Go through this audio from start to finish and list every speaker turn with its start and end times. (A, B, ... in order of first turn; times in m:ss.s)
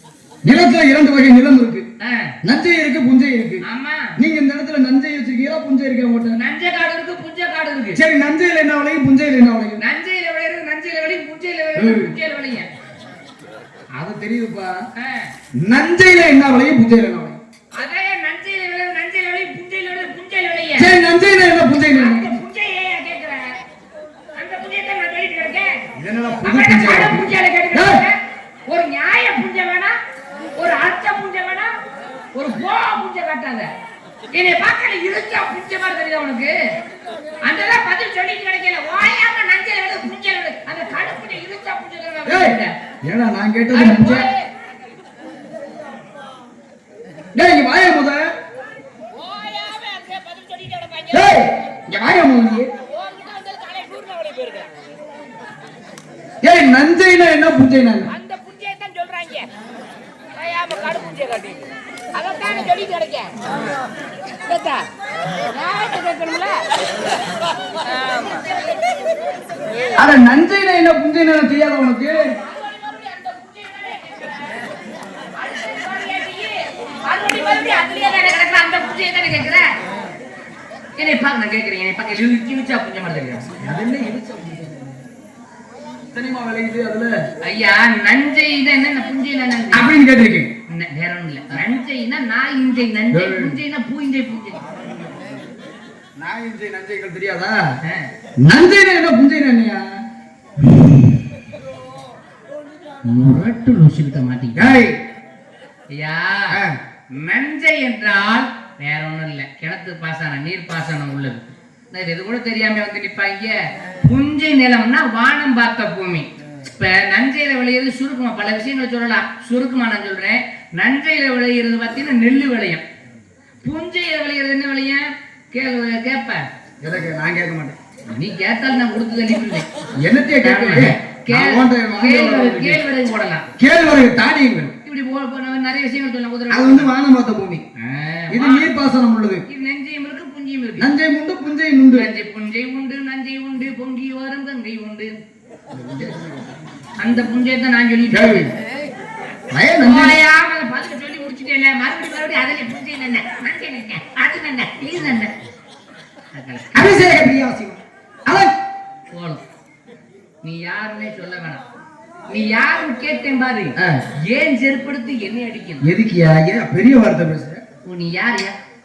0:00.4-0:01.9 A
0:02.0-0:02.4 B
0:02.4-0:03.6 A
0:03.6-0:04.2 B
0:04.2-0:06.4 A
0:06.3-0:08.0 B
0:08.0-0:09.8 A
0:09.8-0:12.7 B
0:11.8-0:12.1 A
0:14.0-0:14.8 A
0:15.0-0:15.3 B
0:15.6-0:17.4 A
0:17.8-0:20.9 B
0:20.8-0:22.3 A
0:21.9-0:23.6 B
0:24.4-0:25.8 B
0:26.0-0:28.0 A
0:26.4-0:30.0 B
0:30.6-0:31.8 B
0:32.4-0:33.7 B
0:34.3-0:36.7 B
0:37.4-0:42.7 B
0:42.3-0:44.3 A
0:43.7-0:44.5 B
0:47.3-0:48.3 A
0:49.1-0:51.5 B
0:51.1-0:52.7 A
0:52.8-0:54.7 B
0:56.4-0:58.1 A
0:58.1-0:59.5 B
1:00.3-1:03.4 B
1:04.3-1:04.9 B
1:05.5-1:06.7 B
1:07.8-1:08.5 B
1:10.0-1:12.3 A
1:12.1-1:14.6 B
1:15.4-1:19.7 B
1:21.0-1:23.5 B
1:23.6-1:25.0 A
1:26.1-1:27.2 A
1:27.4-1:29.9 B
1:29.7-1:30.5 A
1:30.7-1:34.6 B
1:33.1-1:33.6 A
1:34.7-1:35.5 A
1:36.2-1:37.6 A
1:38.4-1:39.9 A
1:43.0-1:44.8 B
1:44.6-1:45.0 A
1:45.9-1:46.6 B
1:46.5-1:46.8 A
1:47.1-1:56.3 B
1:56.8-2:02.8 B
2:03.6-2:06.4 B
2:06.8-2:07.8 A
2:08.1-2:09.7 B
2:10.0-2:12.8 A
2:10.4-2:13.5 B
2:13.6-2:14.7 A
2:14.8-2:16.9 B
2:16.5-2:17.6 A
2:17.8-2:18.7 B
2:18.3-2:19.4 A
2:19.5-2:20.9 B
2:20.8-2:22.1 A
2:21.9-2:25.1 B
2:25.7-2:26.6 A
2:27.0-2:28.5 B
2:28.1-2:28.5 A
2:29.5-2:30.2 A
2:29.8-2:35.3 B
2:36.3-2:36.7 B
2:36.7-2:38.5 A
2:39.1-2:39.4 B
2:40.4-2:41.6 B
2:42.3-2:45.8 B
2:43.8-2:44.0 A
2:45.8-2:47.6 A
2:47.8-2:48.6 B